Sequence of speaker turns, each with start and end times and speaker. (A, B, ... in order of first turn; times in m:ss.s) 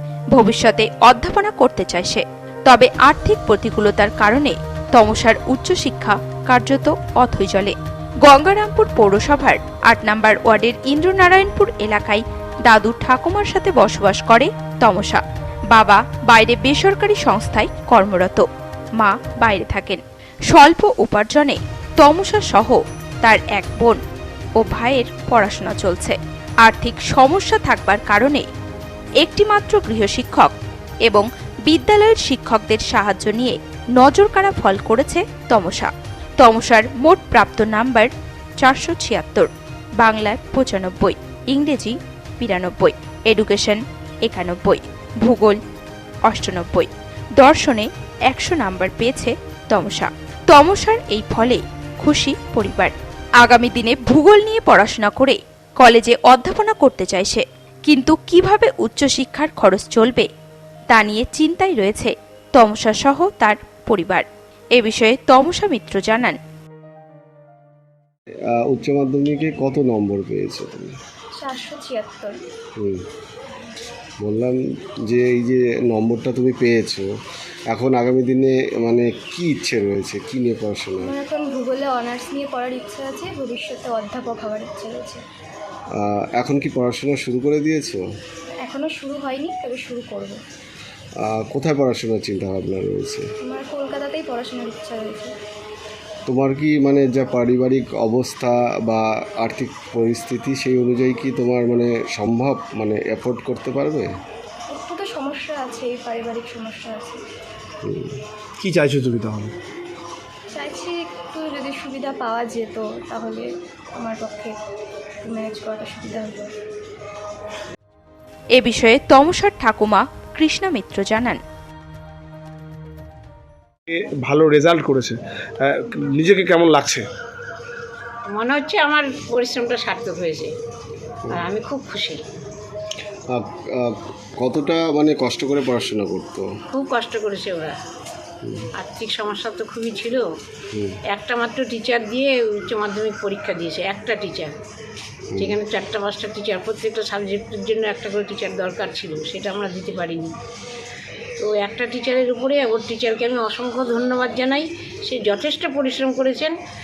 0:00.3-0:15.2 A
0:15.7-0:18.4 A
0:19.0-0:24.0 A
0:24.6-0:28.5 A
0:29.2-0:30.5 A
0:31.0-0:45.6 A
0:46.3-1:00.3 A
1:00.9-1:06.4 A
1:08.6-1:11.0 B
1:11.4-1:12.4 C
1:14.2-1:14.6 B
1:15.1-1:17.1 B
1:17.7-1:21.1 B
1:21.0-1:25.2 C
1:26.0-1:28.0 B
1:28.6-1:30.4 C
1:31.2-1:33.2 B
1:33.4-1:35.3 C
1:36.3-1:44.1 B
1:44.7-1:47.2 C
1:47.8-1:48.2 B
1:48.6-1:49.6 D
1:50.5-1:54.6 C
1:55.2-1:56.5 C
1:58.6-2:01.4 A
2:03.9-2:07.0 D
2:08.3-2:10.5 E
2:11.3-2:12.2 E
2:13.3-2:13.9 B
2:14.4-2:16.4 B
2:16.7-2:17.8 E
2:18.8-2:20.2 E
2:21.1-2:24.6 E
2:25.4-2:30.3 E
2:31.4-2:36.6 E